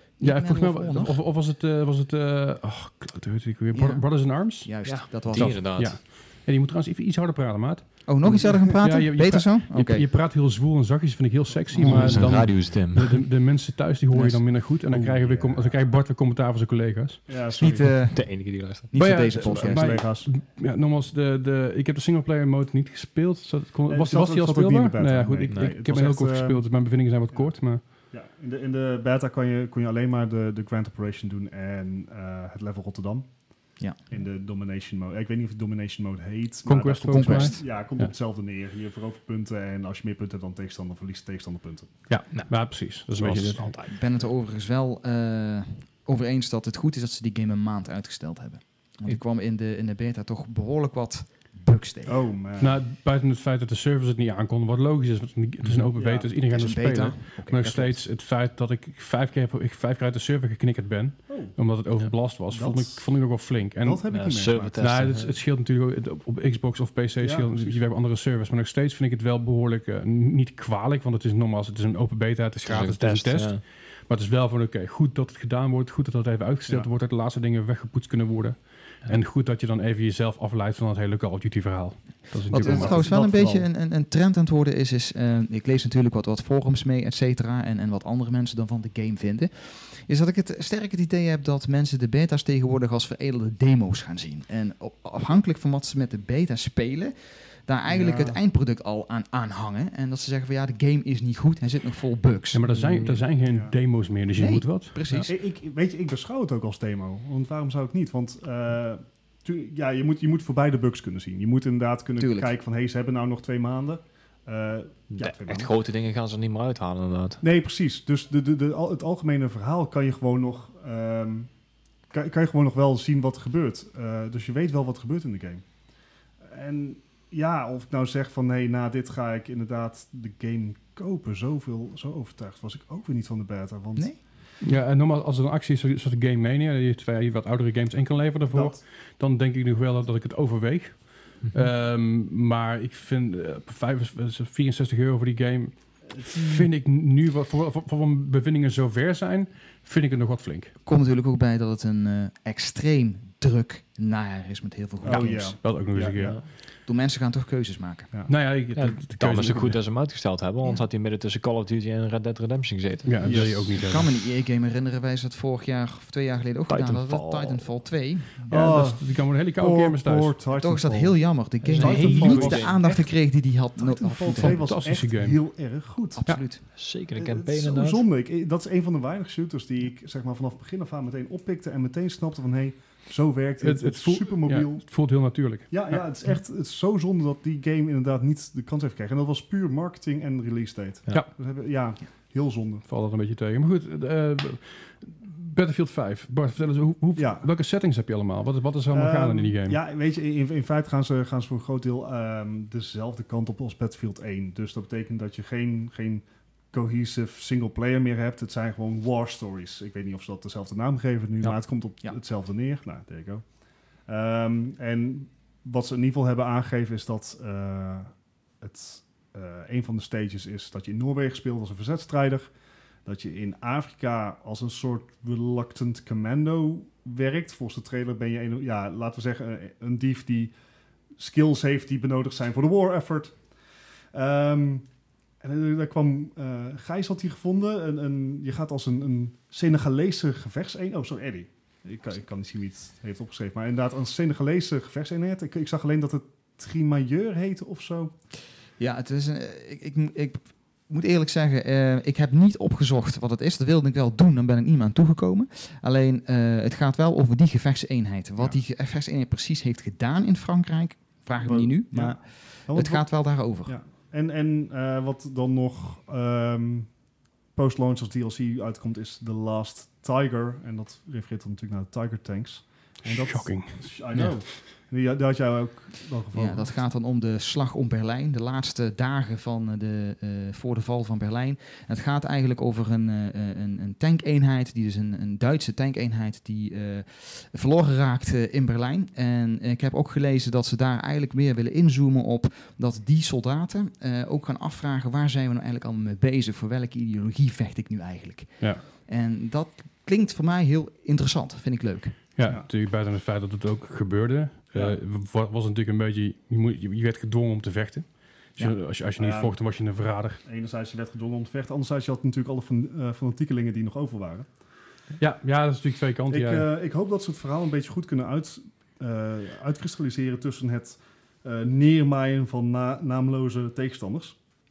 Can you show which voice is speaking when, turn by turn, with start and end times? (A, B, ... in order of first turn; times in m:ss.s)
0:00.2-0:01.2 A
0:00.2-0:04.7 B
0:03.7-0:05.6 A
0:04.8-0:06.0 C
0:05.2-0:08.0 B
0:08.1-0:10.0 A
0:08.8-0:17.3 B
0:11.7-0:12.3 A
0:11.8-0:13.2 C
0:14.1-0:14.4 A
0:14.9-0:15.8 D
0:17.3-0:18.0 D
0:17.6-0:20.0 A
0:18.1-0:18.9 C
0:18.9-0:27.8 B
0:19.2-0:20.3 D
0:23.9-0:26.7 D
0:25.5-0:25.7 C
0:28.1-0:33.3 D
0:34.1-0:42.0 D
0:36.6-0:38.1 B
0:37.1-0:37.7 A
0:42.1-0:43.7 B
0:42.3-0:43.9 C
0:43.8-0:52.2 A
0:52.0-0:52.8 D
0:52.6-1:04.0 B
0:56.0-0:56.3 D
0:56.4-0:58.0 A
1:01.3-1:01.6 D
1:02.5-1:03.1 D
1:03.8-1:05.0 D
1:04.1-1:05.3 C
1:04.8-1:23.1 B
1:07.2-1:07.8 D
1:12.6-1:13.6 C
1:22.5-1:42.7 A
1:22.5-1:23.7 D
1:37.9-1:38.4 D
1:42.5-1:45.0 B
1:42.7-1:43.2 C
1:43.4-1:43.7 D
1:44.4-1:45.3 A
1:45.2-1:55.7 D
1:52.2-1:52.5 A
1:55.1-1:57.4 C
1:57.4-2:01.5 D
2:02.1-2:05.6 D
2:06.4-2:14.1 D
2:14.6-2:30.7 B
2:18.5-2:18.8 D
2:30.8-2:35.6 A
2:35.0-2:36.4 D
2:35.6-2:36.4 B
2:36.8-2:38.1 A
2:38.3-2:39.8 B
2:38.7-2:43.4 C
2:43.0-2:44.1 B
2:43.2-2:43.7 D
2:43.7-2:48.6 A
2:46.7-2:47.7 C
2:48.5-2:53.0 D
2:48.5-2:50.4 B
2:50.5-2:54.7 A
2:51.6-2:53.0 C
2:51.8-2:52.7 B
2:53.7-3:04.9 D
2:54.4-2:55.4 B
2:56.1-2:56.6 A
2:56.7-2:58.0 C
3:03.6-3:06.0 B
3:05.7-3:12.8 D
3:12.9-3:19.8 B
3:17.2-3:17.5 D
3:18.9-3:33.4 D
3:34.1-3:42.5 D
3:43.0-3:50.5 D
3:51.2-3:53.4 D
3:54.1-3:54.8 D
3:55.4-4:08.1 D
4:08.8-4:23.8 A
4:21.4-4:26.9 D
4:27.5-4:36.7 D
4:33.0-4:33.8 B
4:36.3-5:02.2 A
5:02.4-5:10.4 B
5:09.2-5:09.6 D
5:10.4-5:14.5 D
5:15.2-5:16.6 B
5:16.3-5:24.4 D